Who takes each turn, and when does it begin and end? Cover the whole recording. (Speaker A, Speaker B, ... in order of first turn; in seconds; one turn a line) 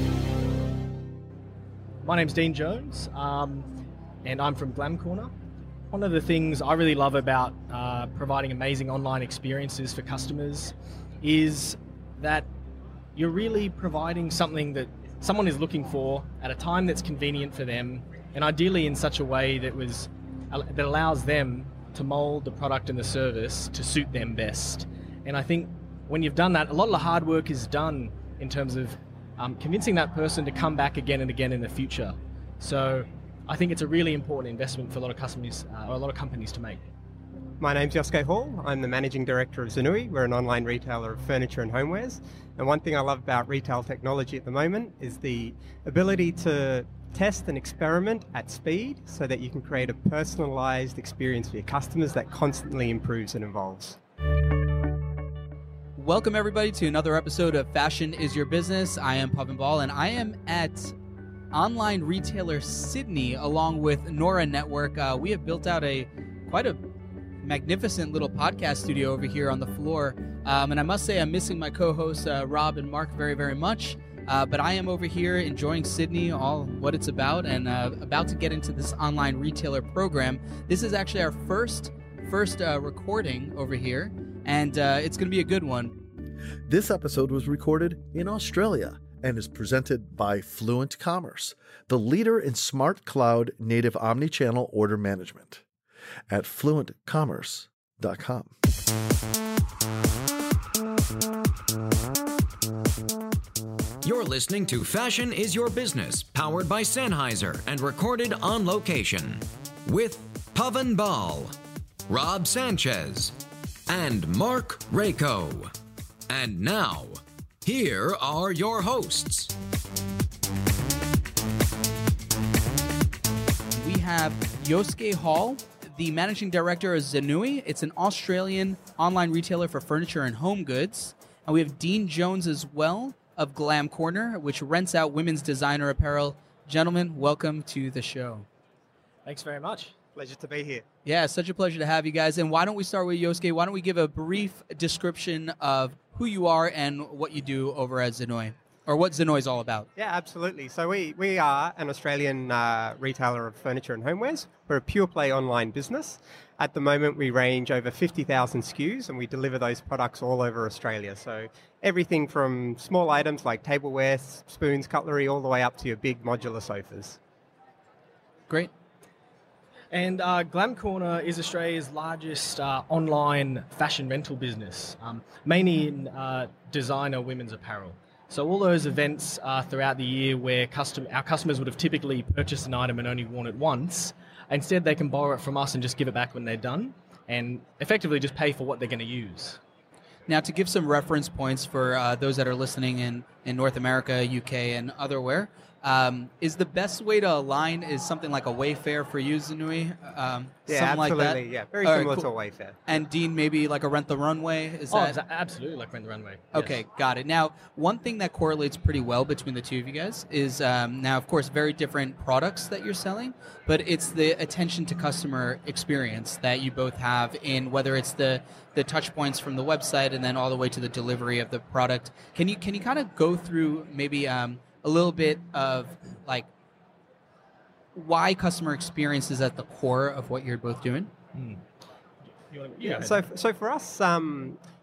Speaker A: 2.0-3.7
Speaker A: 4.2-5.3
Speaker A: 5.9-12.5
Speaker A: 13.2-36.9
Speaker B: 37.6-54.0
Speaker C: 56.0-60.9
Speaker C: 61.5-66.8
Speaker C: 67.4-86.0
Speaker D: 86.7-95.6
Speaker D: 96.3-98.5
Speaker E: 104.0-111.5
Speaker E: 112.1-113.3
Speaker E: 113.9-115.7
Speaker E: 116.3-119.5
Speaker C: 123.7-138.4
Speaker A: 139.2-139.9
Speaker B: 140.2-140.8
Speaker C: 141.0-149.9
Speaker B: 150.0-167.2
Speaker A: 169.9-189.6
Speaker C: 190.3-202.3
Speaker B: 200.7-202.9
Speaker C: 202.9-205.2
Speaker A: 204.9-206.8
Speaker C: 206.5-226.5
Speaker C: 227.9-231.1
Speaker A: 231.3-231.6
Speaker A: 232.5-233.2
Speaker B: 232.8-234.6